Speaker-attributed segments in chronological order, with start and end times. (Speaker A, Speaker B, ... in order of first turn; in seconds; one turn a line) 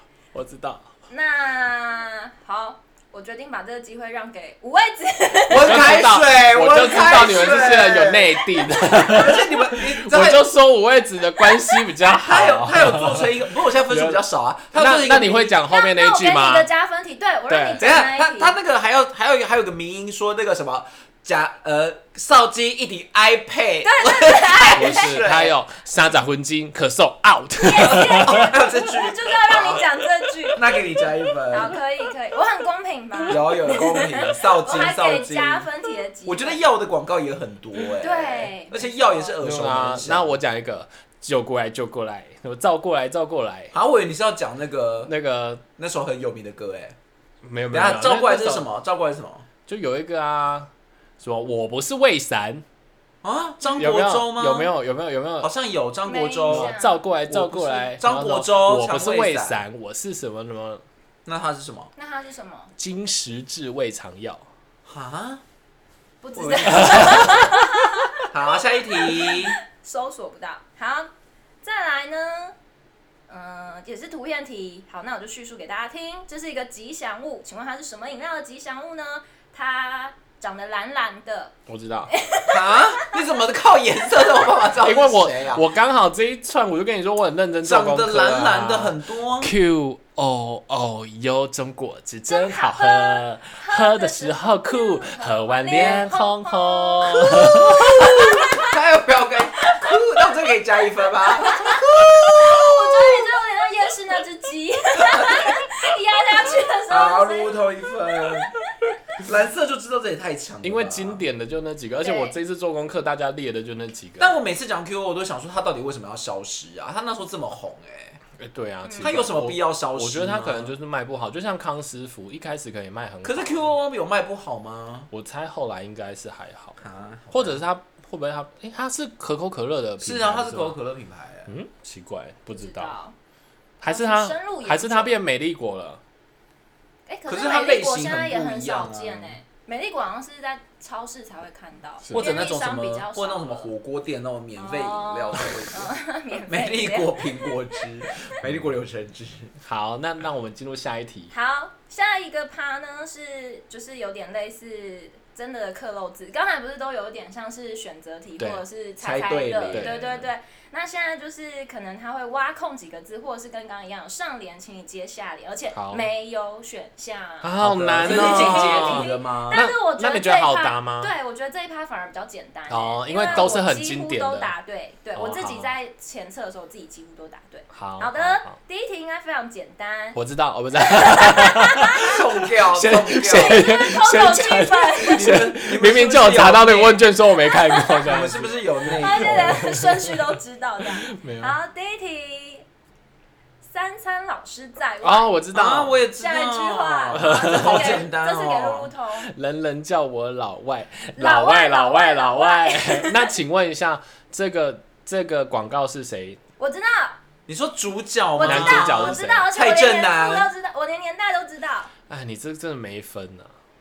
Speaker A: 0.3-0.9
Speaker B: 1.1-5.9
Speaker C: 5.5-8.4
Speaker A: 5.6-14.2
Speaker B: 6.9-7.8
Speaker B: 8.5-9.2
Speaker C: 9.0-10.5
Speaker C: 12.2-15.6
Speaker A: 14.7-16.7
Speaker B: 15.6-18.6
Speaker A: 17.5-17.8
Speaker C: 17.8-25.6
Speaker B: 23.8-25.2
Speaker A: 24.8-28.6
Speaker B: 27.6-36.6
Speaker C: 27.7-29.9
Speaker C: 30.5-31.8
Speaker C: 33.3-35.7
Speaker C: 36.3-40.3
Speaker B: 38.0-39.4
Speaker A: 39.4-43.7
Speaker C: 43.7-45.1
Speaker A: 45.0-45.6
Speaker C: 45.8-47.0
Speaker A: 47.4-48.7
Speaker C: 47.7-49.5
Speaker A: 49.7-52.6
Speaker C: 53.2-54.7
Speaker B: 53.6-53.9
Speaker A: 53.8-55.5
Speaker C: 55.4-56.7
Speaker B: 56.1-57.0
Speaker A: 56.5-60.8
Speaker C: 57.3-59.6
Speaker C: 61.3-61.9
Speaker B: 62.0-62.7
Speaker A: 62.8-64.5
Speaker C: 64.9-65.4
Speaker B: 66.2-71.1
Speaker C: 66.3-69.6
Speaker A: 66.8-67.5
Speaker B: 71.6-72.5
Speaker B: 73.3-81.6
Speaker A: 81.7-82.1
Speaker B: 82.1-83.2
Speaker C: 82.5-85.7
Speaker A: 84.8-98.4
Speaker C: 87.6-89.5
Speaker B: 92.3-98.7
Speaker C: 95.7-96.0
Speaker C: 97.4-103.3
Speaker B: 99.7-100.0
Speaker B: 101.4-107.7
Speaker C: 105.0-105.7
Speaker C: 106.9-108.5
Speaker C: 109.2-111.2
Speaker A: 110.6-114.4
Speaker B: 112.0-112.4
Speaker C: 114.2-118.2
Speaker A: 118.4-123.7
Speaker B: 118.8-119.2
Speaker C: 119.0-120.7
Speaker C: 123.2-125.1
Speaker A: 125.1-126.8
Speaker C: 126.8-127.6
Speaker A: 127.3-130.8
Speaker C: 130.0-131.5
Speaker A: 131.5-133.0
Speaker B: 132.6-133.2
Speaker A: 133.8-136.0
Speaker B: 133.8-135.1
Speaker B: 137.1-143.7
Speaker C: 137.3-139.4
Speaker A: 142.1-142.4
Speaker C: 142.1-145.9
Speaker B: 144.6-147.8
Speaker C: 146.5-149.5
Speaker A: 149.6-151.3
Speaker B: 151.3-180.2
Speaker A: 158.4-158.6
Speaker C: 159.0-160.2
Speaker A: 159.7-160.1
Speaker A: 165.8-166.0
Speaker A: 167.4-171.1
Speaker C: 167.6-169.7
Speaker A: 172.7-174.5
Speaker C: 173.3-173.5
Speaker A: 175.2-175.7
Speaker A: 177.7-178.6
Speaker A: 180.2-191.6
Speaker B: 180.8-182.1
Speaker C: 182.0-183.7
Speaker B: 183.3-185.3
Speaker C: 185.0-187.1
Speaker B: 187.5-188.2
Speaker C: 188.0-189.8
Speaker B: 188.9-192.7
Speaker B: 193.6-195.4
Speaker A: 195.0-196.0
Speaker C: 195.5-198.9
Speaker B: 196.1-199.3
Speaker A: 197.2-198.1
Speaker A: 199.3-206.4
Speaker B: 201.2-203.3
Speaker B: 206.6-207.2
Speaker C: 207.5-210.5
Speaker B: 208.3-211.9
Speaker A: 208.4-209.5
Speaker A: 212.1-213.5